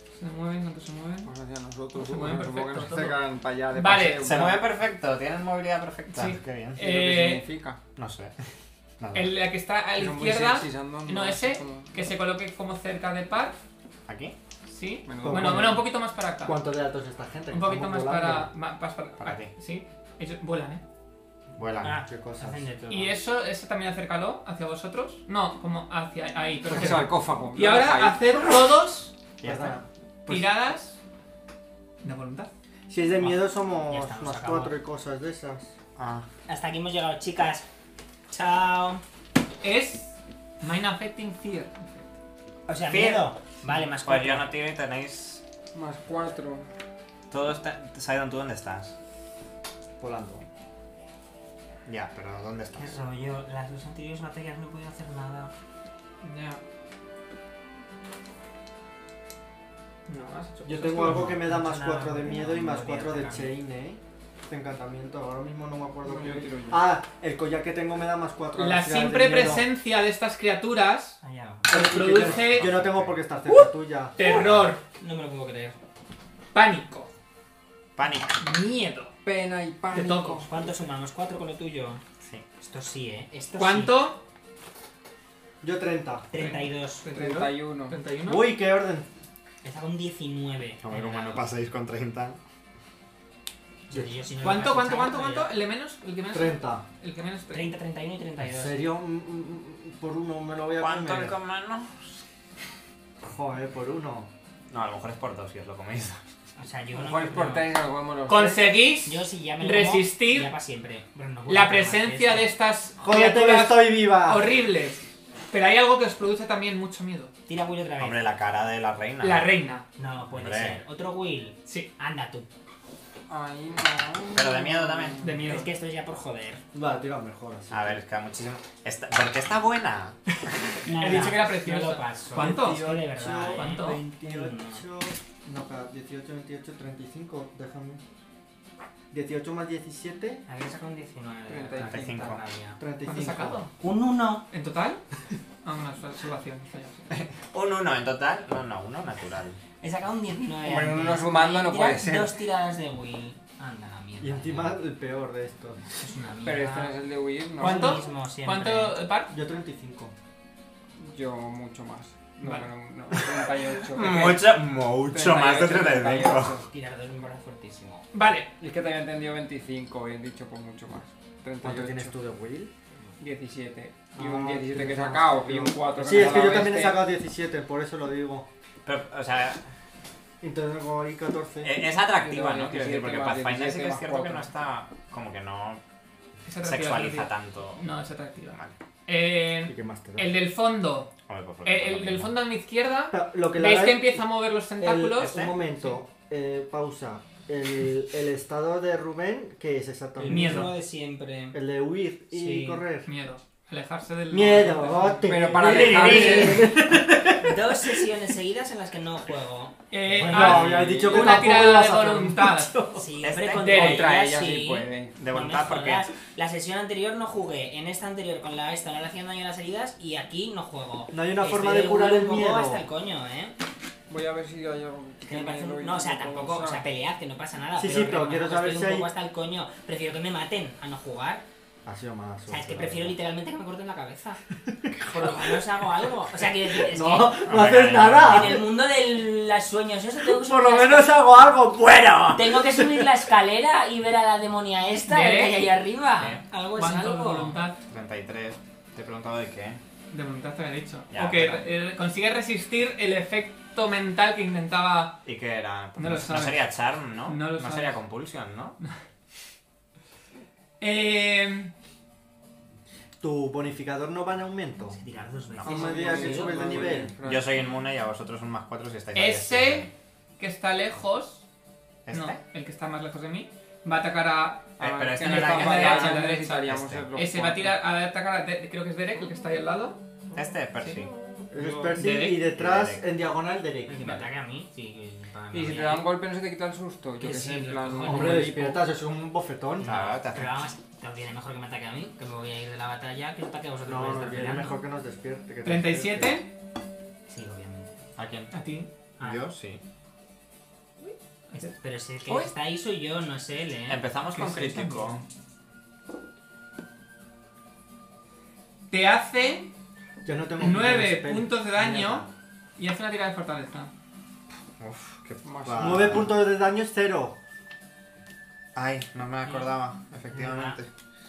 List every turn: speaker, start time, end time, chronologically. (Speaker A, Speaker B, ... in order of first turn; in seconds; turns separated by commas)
Speaker A: 0.2-1.3, Speaker B: 1.2-4.7, Speaker A: 1.9-3.2, Speaker A: 3.7-4.4, Speaker C: 4.2-6.8, Speaker A: 6.1-7.5, Speaker B: 6.8-7.8, Speaker C: 8.0-8.3, Speaker C: 9.0-9.3, Speaker A: 9.1-13.6, Speaker B: 10.0-12.1, Speaker C: 14.1-14.4, Speaker A: 14.7-16.6, Speaker B: 15.1-15.7, Speaker D: 15.2-15.9, Speaker D: 16.4-18.5, Speaker A: 17.5-20.8, Speaker C: 19.2-19.5, Speaker C: 21.6-22.0, Speaker E: 21.8-23.2, Speaker D: 22.0-22.6, Speaker A: 22.9-29.1, Speaker B: 26.7-28.2, Speaker D: 26.8-27.1, Speaker C: 29.4-29.8, Speaker D: 29.4-30.5, Speaker A: 30.3-31.0, Speaker A: 32.0-32.5, Speaker D: 32.9-35.7, Speaker E: 33.2-34.8, Speaker C: 36.0-36.3, Speaker E: 36.5-37.7, Speaker E: 38.3-39.0, Speaker A: 39.6-42.1, Speaker E: 42.7-44.5, Speaker C: 42.9-43.3, Speaker C: 43.9-45.4, Speaker B: 45.7-46.7, Speaker C: 47.3-48.9, Speaker D: 50.0-50.5, Speaker C: 51.9-53.0, Speaker E: 52.8-55.5, Speaker A: 56.2-56.6, Speaker A: 60.1-61.4, Speaker D: 60.6-69.7, Speaker E: 61.0-63.5, Speaker B: 66.0-66.9, Speaker A: 68.6-72.7, Speaker E: 71.2-71.8, Speaker D: 71.7-74.2, Speaker C: 72.2-73.2, Speaker A: 73.5-74.8, Speaker C: 74.2-74.8, Speaker E: 75.0-75.8, Speaker A: 76.5-77.1, Speaker C: 78.0-78.4, Speaker A: 78.4-79.1, Speaker B: 79.2-80.6, Speaker A: 79.9-80.5, Speaker E: 80.5-82.0, Speaker C: 82.2-82.5, Speaker E: 82.6-84.0, Speaker A: 83.6-84.2, Speaker D: 85.6-86.3, Speaker E: 86.3-87.1, Speaker A: 86.4-88.5, Speaker B: 87.1-88.0, Speaker D: 88.2-89.1, Speaker E: 89.6-91.5, Speaker C: 90.8-92.4, Speaker E: 93.9-95.5, Speaker A: 94.4-97.7, Speaker D: 96.3-96.8, Speaker E: 97.5-98.8, Speaker D: 98.4-101.4, Speaker C: 100.8-102.2, Speaker D: 103.2-104.3, Speaker C: 104.7-106.2, Speaker E: 106.6-107.7, Speaker B: 106.9-108.6, Speaker A: 108.3-110.5, Speaker E: 109.0-112.5, Speaker A: 111.5-117.3, Speaker D: 113.0-114.5, Speaker E: 117.5-118.2, Speaker C: 118.0-119.5, Speaker A: 119.2-119.9, Speaker E: 120.0-122.5, Speaker C: 120.3-120.8, Speaker B: 123.3-125.4, Speaker C: 124.3-125.2, Speaker A: 125.2-125.7, Speaker E: 125.4-126.6, Speaker D: 126.7-128.0, Speaker C: 127.7-130.2, Speaker A: 130.8-132.9, Speaker E: 130.8-134.8, Speaker D: 131.0-131.3, Speaker D: 132.3-138.0, Speaker A: 133.5-134.0, Speaker D: 139.1-140.4, Speaker E: 140.5-142.8, Speaker B: 141.5-142.4, Speaker C: 141.8-142.4, Speaker D: 142.8-143.6, Speaker A: 143.1-143.7, Speaker E: 143.8-144.5, Speaker A: 144.5-145.0, Speaker A: 145.6-147.1, Speaker C: 147.1-149.6, Speaker E: 149.8-154.8, Speaker B: 150.6-152.3, Speaker D: 154.2-155.8, Speaker E: 156.0-157.0, Speaker B: 156.4-158.0, Speaker E: 157.6-159.0, Speaker A: 157.6-159.3, Speaker D: 159.3-160.1, Speaker B: 161.0-164.5, Speaker C: 163.9-166.6, Speaker B: 165.1-166.7, Speaker E: 166.6-168.1, Speaker A: 168.1-168.5, Speaker B: 168.6-172.1, Speaker D: 171.6-172.7, Speaker B: 173.2-177.0, Speaker D: 174.2-178.5, Speaker A: 176.1-177.0, Speaker C: 178.8-179.7, Speaker D: 180.4-181.8, Speaker C: 181.6-185.8, Speaker B: 182.2-184.5, Speaker A: 186.4-191.1, Speaker C: 186.6-187.8, Speaker D: 189.7-190.3, Speaker C: 191.3-192.3, Speaker A: 191.7-196.0, Speaker D: 193.1-194.2, Speaker D: 194.8-200.8, Speaker C: 195.2-195.6, Speaker E: 200.2-201.6, Speaker A: 200.2-200.7, Speaker D: 201.5-203.1, Speaker E: 202.3-202.8, Speaker A: 203.1-205.5, Speaker D: 204.3-208.0, Speaker B: 205.2-206.7, Speaker E: 205.5-206.8, Speaker C: 205.7-206.8, Speaker E: 207.4-211.3, Speaker A: 209.9-214.1, Speaker D: 210.1-213.0, Speaker B: 210.4-211.4, Speaker E: 212.9-223.6, Speaker C: 213.2-213.6, Speaker B: 213.6-215.2, Speaker C: 215.2-216.1, Speaker D: 221.1-222.8, Speaker B: 224.1-226.8, Speaker E: 225.2-231.4, Speaker D: 227.8-229.1, Speaker D: 231.8-233.2, Speaker E: 232.5-234.4, Speaker D: 234.7-235.6, Speaker E: 235.1-237.6, Speaker D: 236.7-238.7, Speaker C: 237.4-238.6, Speaker E: 238.1-241.2, Speaker D: 240.2-243.3, Speaker E: 242.3-247.6, Speaker A: 245.1-245.6, Speaker C: 246.2-246.4, Speaker A: 246.8-247.8, Speaker C: 247.9-249.8, Speaker A: 250.1-255.2, Speaker C: 251.1-251.7, Speaker C: 255.3-258.8, Speaker A: 256.0-256.6, Speaker A: 257.2-258.0, Speaker A: 260.8-261.7, Speaker D: 263.2-265.0, Speaker E: 264.9-267.1, Speaker C: 265.5-265.9, Speaker A: 265.7-266.6, Speaker B: 265.7-267.5, Speaker D: 265.8-267.1, Speaker C: 267.2-269.9, Speaker A: 269.1-271.4, Speaker C: 272.1-272.4, Speaker A: 272.1-280.0, Speaker C: 274.8-277.1, Speaker B: 274.8-277.8, Speaker C: 280.3-281.1, Speaker A: 280.8-281.1, Speaker B: 281.5-282.0, Speaker D: 281.5-284.2, Speaker A: 281.9-282.5, Speaker C: 282.6-283.1, Speaker E: 283.9-286.1, Speaker B: 285.5-288.8, Speaker E: 287.2-288.8, Speaker D: 288.0-289.9, Speaker E: 289.8-294.8, Speaker C: 289.8-290.7, Speaker D: 293.9-296.4, Speaker A: 295.6-296.5, Speaker E: 297.3-298.0, Speaker C: 298.2-298.5, Speaker A: 298.5-298.9, Speaker E: 299.2-299.5, Speaker C: 299.2-299.8, Speaker A: 301.0-301.7, Speaker E: 301.5-304.0, Speaker C: 302.3-302.5, Speaker C: 303.9-305.2, Speaker A: 304.3-305.2, Speaker A: 308.9-309.7, Speaker D: 310.2-312.3, Speaker A: 310.6-312.3, Speaker A: 312.8-313.9, Speaker C: 314.8-316.4, Speaker B: 315.4-316.2, Speaker D: 315.8-317.4, Speaker C: 318.8-320.9, Speaker D: 320.3-320.8